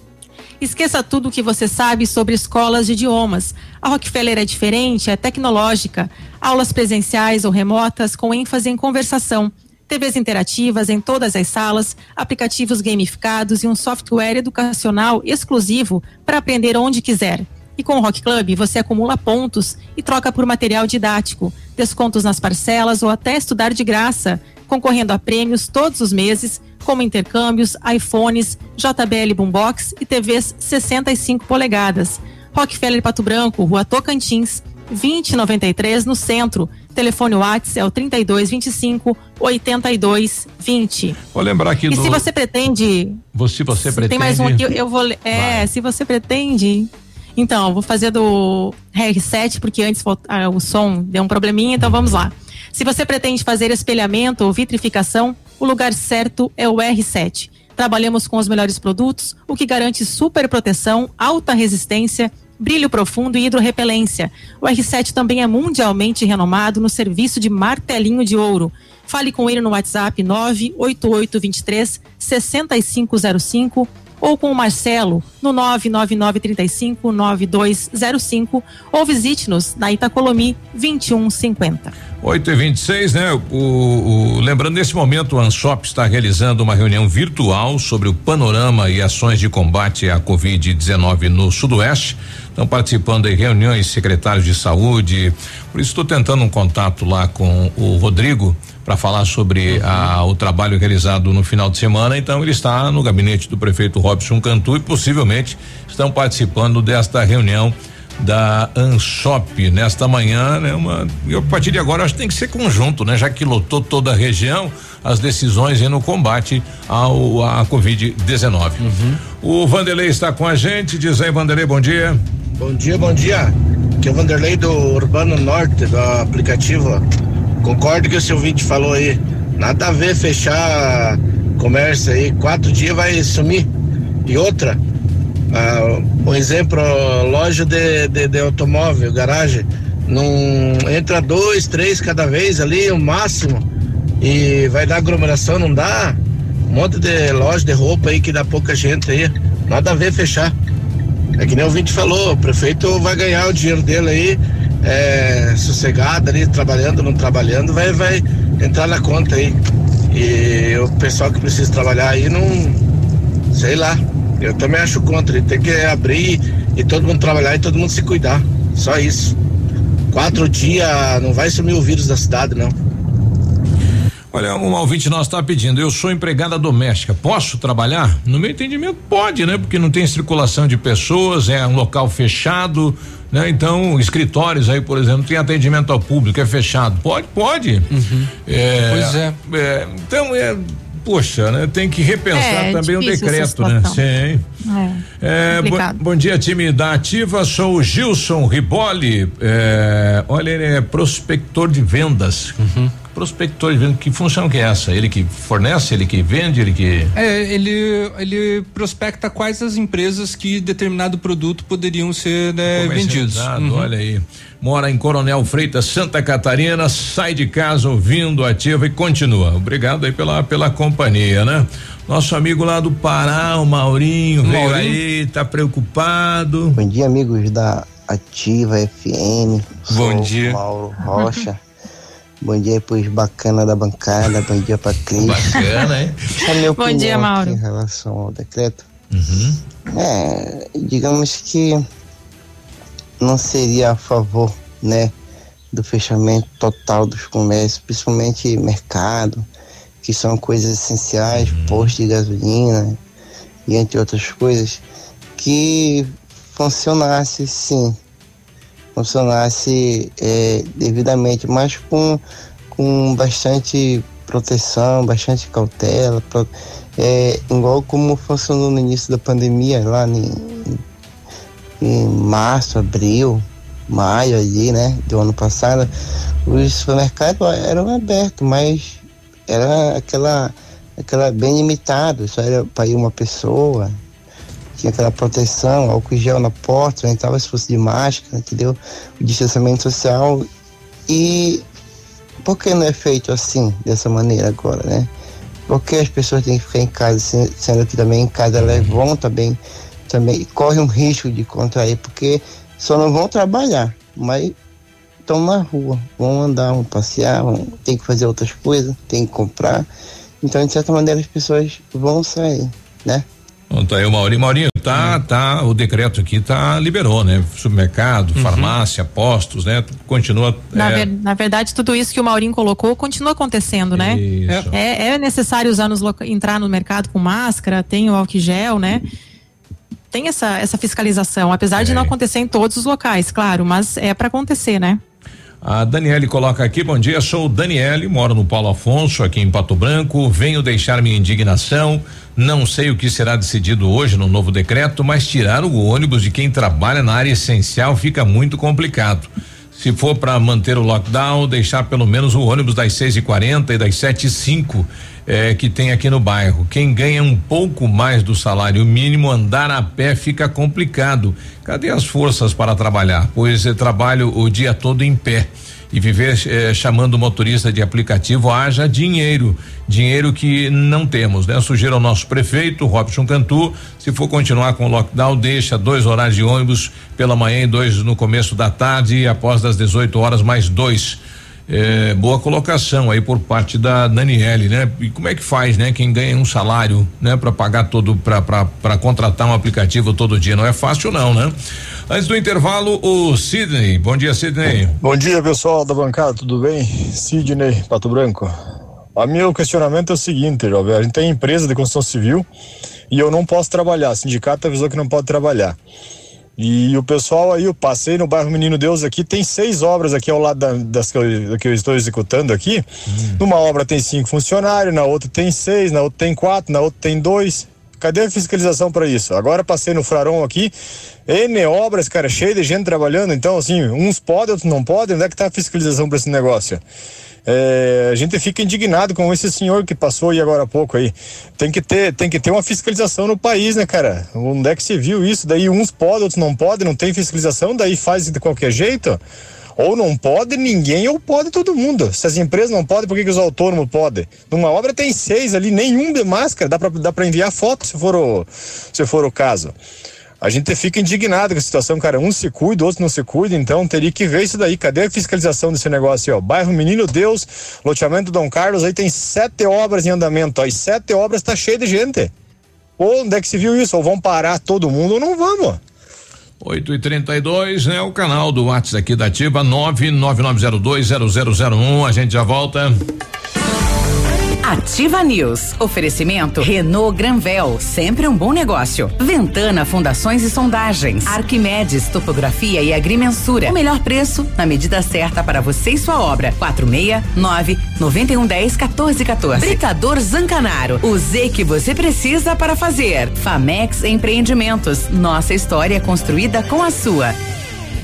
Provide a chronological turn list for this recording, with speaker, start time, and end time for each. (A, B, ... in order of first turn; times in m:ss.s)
0:00.6-0:41.2 A
0:41.3-0:42.2 B
0:41.9-0:43.2 A
0:43.3-0:44.6 B
0:43.8-1:21.9 A
0:45.3-0:45.7 B
1:22.2-1:58.8 B
1:39.7-1:40.1 C
1:58.8-1:59.2 C
1:59.4-2:02.2 B
2:02.6-2:07.0 D
2:07.6-2:13.7 D
2:14.3-2:14.8 D
2:15.5-2:23.6 D
2:24.2-2:26.2 D
2:26.7-2:30.5 D
2:31.4-2:39.6 D
2:40.1-2:42.8 D
2:43.5-2:49.4 D
2:50.1-2:52.8 D
2:54.3-3:07.9 B
3:07.9-3:08.3 C
3:08.4-3:14.4 B
3:08.9-3:09.4 C
3:12.3-3:14.0 A
3:14.7-3:16.0 A
3:15.2-3:22.6 B
3:22.6-3:22.9 C
3:23.1-3:27.1 B
3:27.2-3:33.9 C
3:32.7-3:46.8 B
3:44.4-3:45.0 C
3:46.8-3:51.6 E
3:49.9-3:50.6 C
3:52.4-3:55.7 E
3:55.2-3:56.2 B
3:56.4-3:58.9 E
3:56.7-3:57.6 A
3:59.1-3:59.6 B
3:59.9-4:01.8 E
4:03.2-4:05.1 E
4:05.7-4:09.5 E
4:10.0-4:13.0 E
4:11.3-4:11.9 B
4:13.7-4:14.8 E
4:15.4-4:18.0 E
4:19.0-4:30.8 E
4:31.8-4:35.9 E
4:36.5-4:44.0 E
4:44.8-4:50.5 E
4:51.1-4:51.6 E
4:52.4-4:55.1 E
4:55.7-4:59.6 E
4:58.6-4:59.0 B
5:00.1-5:04.6 E
5:05.3-5:09.9 E
5:10.4-5:13.3 E
5:13.7-5:21.1 B
5:14.9-5:15.2 C
5:18.4-5:18.8 C
5:20.7-5:29.0 A
5:23.9-5:24.7 B
5:30.1-5:35.0 A
5:31.8-5:32.1 B
5:35.6-6:31.5 B
6:32.1-6:35.0 B
6:35.0-6:38.5 F
6:39.2-6:42.4 F
6:43.1-6:45.8 F
6:46.6-6:52.8 F
6:53.1-6:53.4 B
6:53.4-7:00.7 F
7:01.3-7:06.8 F
7:07.5-7:19.2 F
7:19.8-7:29.7 F
7:30.4-7:42.3 F
7:43.0-7:45.8 F
7:46.6-7:53.0 B
7:54.6-8:17.4 G